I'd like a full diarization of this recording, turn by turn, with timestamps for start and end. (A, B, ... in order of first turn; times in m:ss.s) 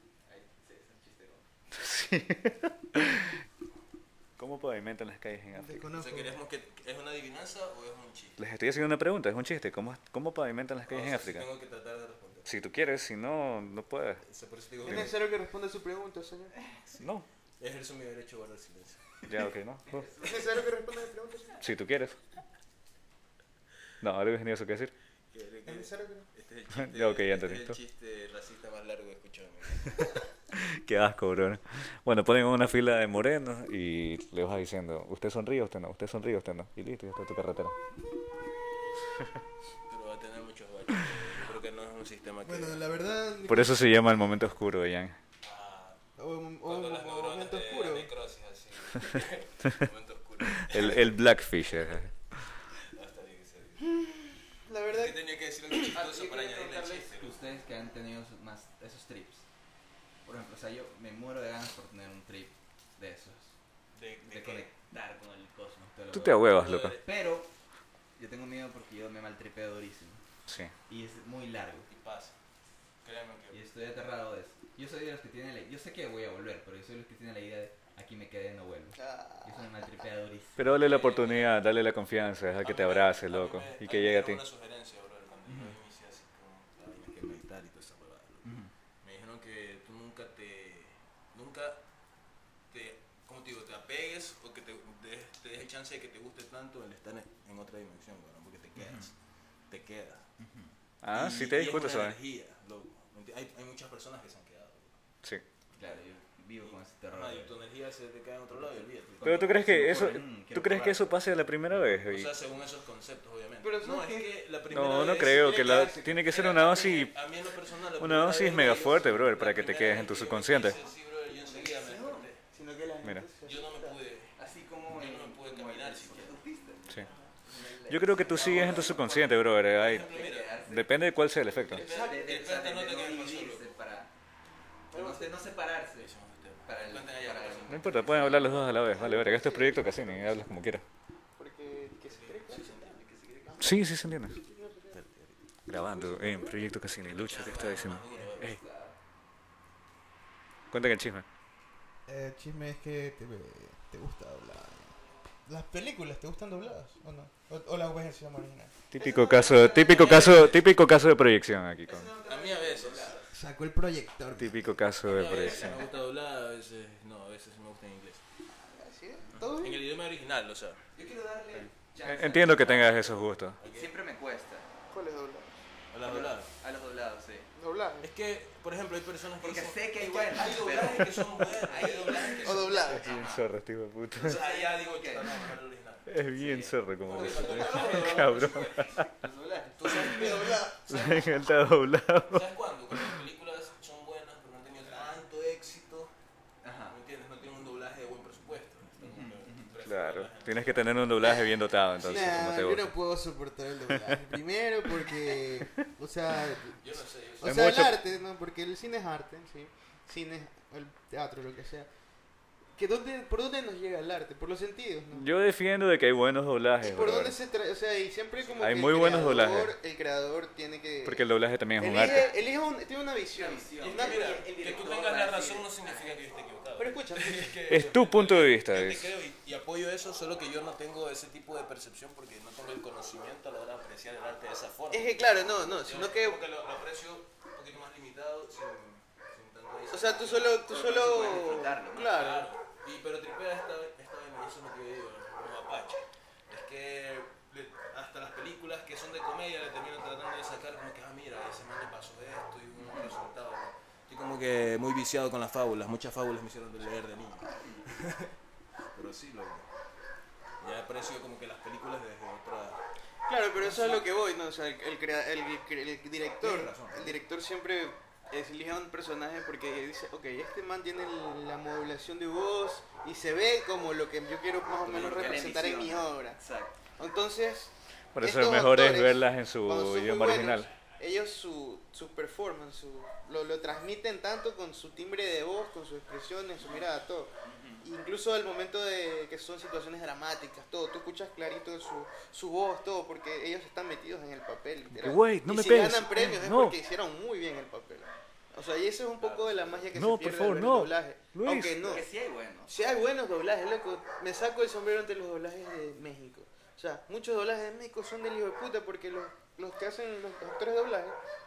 0:00.3-0:01.4 A
0:01.7-0:03.4 B
0:04.4-0:05.9 B
0:05.5-0:06.4 C
0:06.0-0:08.4 D
0:08.4-0:11.5 B
0:10.9-0:12.5 D
0:12.5-0:14.2 B
0:14.2-0:15.2 D
0:14.8-0:16.5 C
0:17.0-0:17.3 B
0:17.6-0:19.2 D
0:19.2-0:20.1 B
0:19.9-0:20.5 A
0:20.2-0:21.7 C
0:21.6-0:22.2 B
0:24.0-0:24.9 B
0:25.3-0:30.0 D
0:25.6-0:26.3 C
0:26.7-0:27.8 B
0:29.8-0:37.8 B
0:39.9-0:43.2 D
0:42.4-0:43.8 C
0:43.5-0:45.2 B
0:45.4-0:46.0 D
0:46.2-0:48.1 C
0:46.6-0:51.2 D
0:50.4-0:52.6 B
0:52.8-0:54.0 D
0:53.9-0:55.2 C
0:54.9-0:57.4 D
0:55.7-0:56.0 C
0:55.9-0:59.4 A
0:57.6-0:57.9 C
1:00.2-1:03.6 A
1:03.9-1:04.7 D
1:04.2-1:07.5 A
1:06.1-1:07.0 B
1:06.5-1:07.0 D
1:08.2-1:10.2 A
1:10.5-1:10.7 B
1:10.9-1:11.9 A
1:11.9-1:12.4 D
1:13.0-1:13.6 D
1:13.5-1:20.7 A
1:19.0-1:19.8 C
1:20.6-1:24.4 B
1:20.8-1:21.6 D
1:22.6-1:28.5 D
1:25.5-1:25.8 A
1:28.4-1:28.7 A
1:29.0-1:31.8 D
1:32.7-1:39.2 D
1:38.8-1:39.1 A
1:39.7-1:40.2 D
1:40.4-1:40.7 A
1:41.0-1:42.2 B
1:41.1-1:45.0 D
1:45.8-1:47.6 A
1:45.8-1:46.0 D
1:46.6-1:50.2 D
1:48.5-1:51.4 A
1:49.2-1:52.3 B
1:51.7-2:02.4 D
1:53.6-1:54.4 C
1:54.7-1:57.2 B
1:55.1-1:56.1 C
1:57.9-2:00.8 B
2:00.6-2:02.3 A
2:02.5-2:04.0 C
2:03.0-2:03.3 B
2:03.4-2:07.3 D
2:04.4-2:09.4 A
2:07.9-2:11.9 B
2:08.3-2:10.6 D
2:09.9-2:10.9 A
2:11.7-2:13.8 D
2:11.7-2:12.2 C
2:11.8-2:14.1 A
2:14.9-2:15.4 C
2:14.9-2:16.1 A
2:16.0-2:18.5 D
2:16.7-2:18.7 A
2:17.7-2:20.8 B
2:18.8-2:20.6 C
2:21.4-2:25.0 C
2:22.0-2:23.8 D
2:23.6-2:24.4 B
2:24.9-2:25.4 D
2:25.7-2:28.6 B
2:25.7-2:26.7 C
2:27.0-2:28.6 D
2:27.9-2:29.0 A
2:30.7-2:31.3 B
2:32.1-2:35.0 C
2:35.5-2:38.8 C
2:38.9-2:42.1 B
2:39.0-2:40.8 A
2:39.9-2:40.6 D
2:41.8-2:43.3 A
2:42.2-2:43.3 D
2:43.3-2:44.7 C
2:44.4-2:45.8 B
2:45.0-2:48.2 D
2:48.5-2:49.8 C
2:49.3-2:50.8 D
2:51.0-2:54.7 A
2:51.5-2:53.6 B
2:53.6-2:53.9 D
2:54.9-2:55.6 C
2:55.9-2:56.5 D
2:56.0-2:57.5 A
2:57.6-2:58.1 C
2:58.0-3:02.9 D
2:59.4-3:03.5 A
3:00.4-3:00.9 C
3:02.3-3:03.1 C
3:02.8-3:04.4 B
3:04.2-3:06.2 D
3:04.2-3:05.4 A
3:06.1-3:09.1 B
3:06.4-3:10.2 A
3:07.0-3:08.9 D
3:09.8-3:11.6 D
3:09.8-3:11.1 C
3:10.9-3:13.2 B
3:12.3-3:16.1 D
3:16.6-3:17.0 A
3:16.9-3:20.9 D
3:19.0-3:19.7 A
3:19.8-3:23.0 B
3:21.2-3:31.9 C
3:21.8-3:22.4 D
3:23.9-3:24.3 B
3:26.8-3:27.7 D
3:27.4-3:28.0 B
3:32.8-3:35.3 C
3:35.1-3:37.4 B
3:36.8-3:44.5 C
3:38.4-3:39.6 A
3:38.6-3:39.8 B
3:41.0-3:42.3 B
3:41.8-3:42.4 A
3:43.3-3:46.2 A
3:43.8-4:18.3 D
3:46.8-3:47.6 C
3:47.7-3:49.1 B
3:54.9-3:56.4 C
3:59.9-4:02.5 C
4:00.7-4:02.1 A
4:18.9-4:19.7 D
4:20.6-4:22.8 D
4:23.3-4:36.4 C
4:23.6-4:24.1 D
4:26.4-4:27.2 D
4:34.8-4:36.8 A
4:37.0-5:02.0 C
4:38.2-4:40.7 B
4:47.4-4:47.9 A
4:54.9-4:56.8 B
4:59.2-5:00.0 D
4:59.9-5:01.8 B
5:01.8-5:02.7 A
5:02.7-5:11.2 C